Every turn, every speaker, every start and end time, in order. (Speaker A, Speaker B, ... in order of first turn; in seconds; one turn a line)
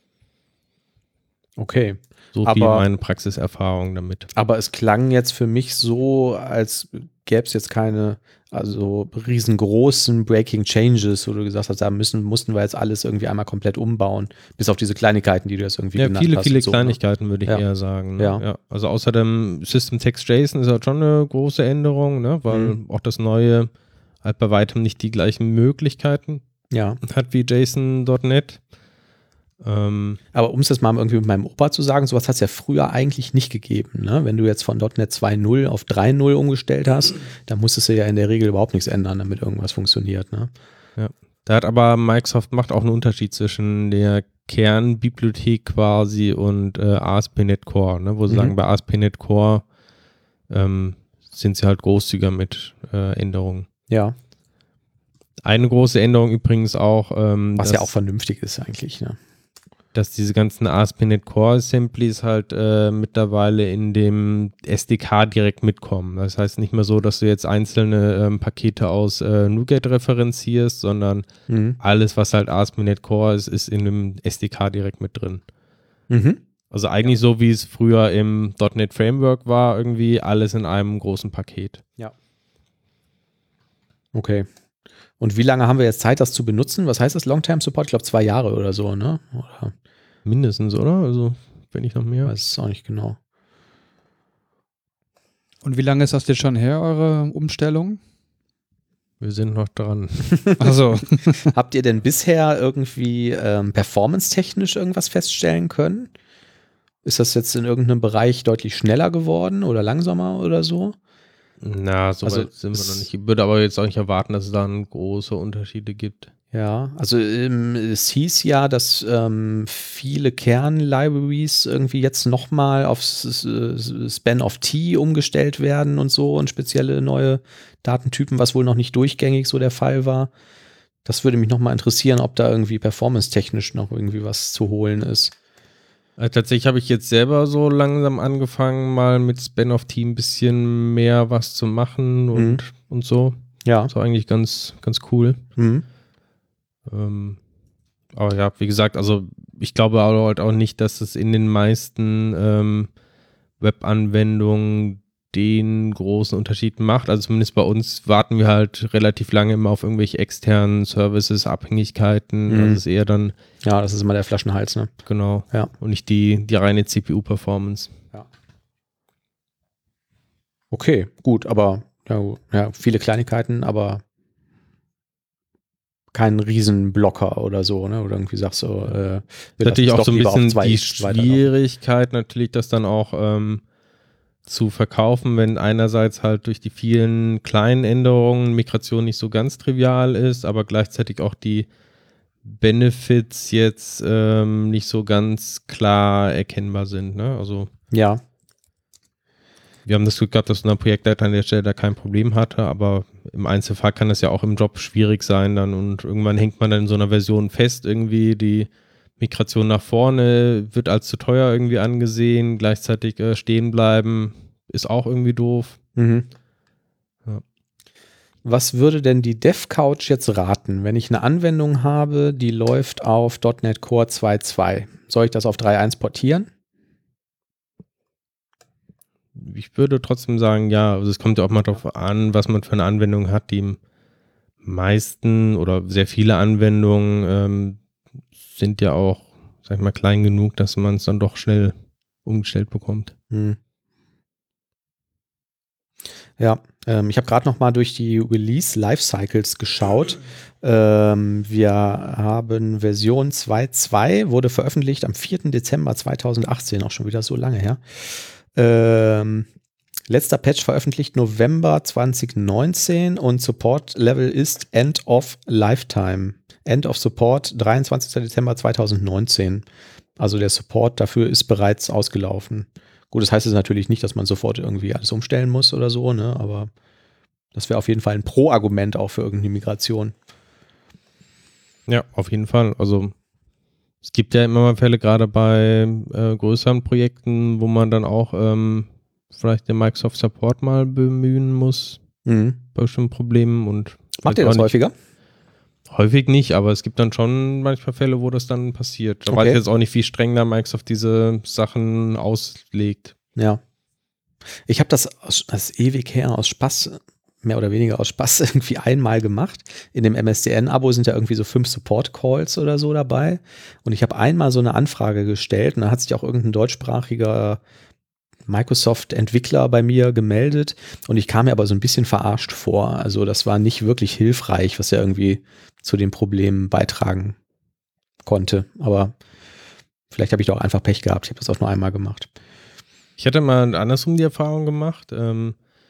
Speaker A: 1.6-2.8
Speaker B: 2.3-4.3
Speaker A: 4.3-17.6
Speaker B: 15.9-23.7
Speaker A: 18.2-18.4
Speaker A: 22.5-22.8
Speaker B: 24.2-26.4
Speaker A: 26.7-27.0
Speaker B: 27.0-28.6
Speaker B: 29.6-30.2
Speaker A: 30.3-40.5
Speaker B: 41.0-49.6
Speaker A: 48.3-48.5
Speaker B: 50.5-53.7
Speaker A: 53.9-54.1
Speaker B: 55.4-57.9
Speaker A: 57.6-59.2
Speaker B: 59.9-71.2
Speaker A: 71.5-71.8
Speaker B: 71.8-75.4
Speaker A: 76.1-76.4
Speaker B: 76.7-81.8
Speaker A: 84.1-84.5
Speaker A: 85.2-89.7
Speaker B: 90.2-92.3
Speaker A: 92.2-93.2
Speaker C: 95.6-98.0
Speaker B: 99.2-100.6
Speaker C: 100.6-101.5
Speaker A: 101.5-106.1
Speaker A: 107.0-111.0
Speaker B: 111.6-116.3
Speaker A: 112.2-113.0
Speaker A: 116.5-130.3
Speaker A: 131.0-135.3
Speaker B: 136.2-143.3
Speaker A: 142.3-142.6
Speaker A: 143.6-143.9
Speaker B: 143.9-145.4
Speaker A: 145.6-145.8
Speaker B: 146.9-147.4
Speaker B: 148.1-152.9
Speaker B: 153.6-163.3
Speaker A: 162.5-162.8
Speaker A: 163.6-164.9
Speaker B: 165.1-167.9
Speaker A: 170.7-174.0
Speaker A: 176.1-181.4
Speaker B: 179.6-183.6
Speaker B: 184.4-191.7
Speaker B: 192.4-197.7
Speaker A: 197.9-198.2
Speaker B: 199.8-215.8
Speaker A: 216.0-216.3
Speaker A: 218.4-226.5
Speaker B: 229.3-233.8
Speaker B: 234.6-237.8
Speaker B: 238.5-241.7
Speaker B: 242.2-243.1
Speaker A: 243.3-243.6
Speaker A: 246.4-259.5
Speaker A: 260.1-269.6
Speaker A: 270.2-276.7
Speaker A: 277.5-280.1
Speaker B: 281.9-283.1
Speaker B: 284.0-292.0
Speaker A: 292.2-292.6
Speaker B: 292.7-294.7
Speaker A: 294.2-294.9
Speaker B: 295.9-303.1
Speaker A: 299.3-299.6
Speaker A: 303.4-303.6
Speaker A: 304.7-317.6
Speaker A: 318.5-327.4
Speaker A: 328.2-329.1
Speaker A: 330.1-332.3
Speaker B: 333.2-335.6